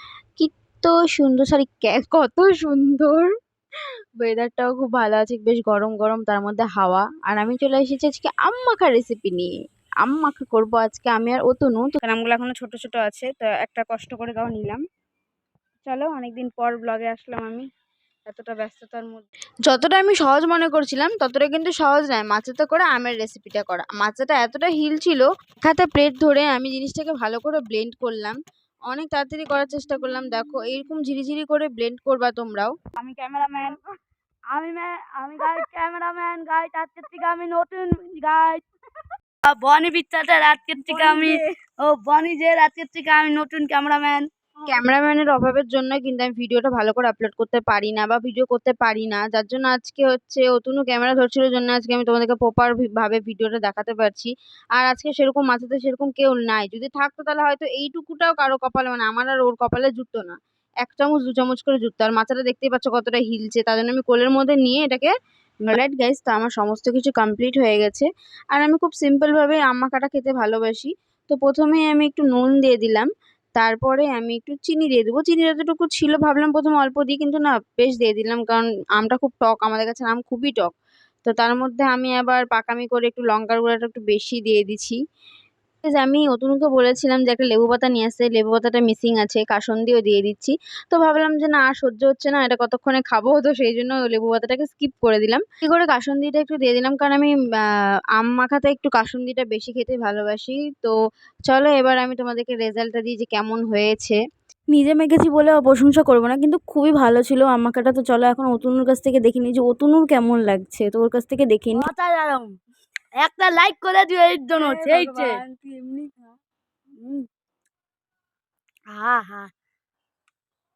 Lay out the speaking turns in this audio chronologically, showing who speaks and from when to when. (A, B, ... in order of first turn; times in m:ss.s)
0:00.4-0:03.3 A
0:04.2-0:09.5 A
0:10.0-0:14.8 A
0:15.8-0:17.6 A
0:18.3-0:28.4 A
0:28.9-0:32.7 A
0:33.0-0:33.8 B
0:34.5-0:38.6 B
0:39.4-0:44.3 B
0:44.7-1:05.1 A
1:05.6-1:20.7 A
1:21.2-1:25.0 A
1:25.8-1:37.3 A
1:38.2-1:40.9 A
1:41.5-1:44.2 A
1:44.7-1:51.9 A
1:51.7-1:52.5 B
1:53.2-1:55.4 B
1:54.6-1:56.0 A
1:58.9-1:59.5 B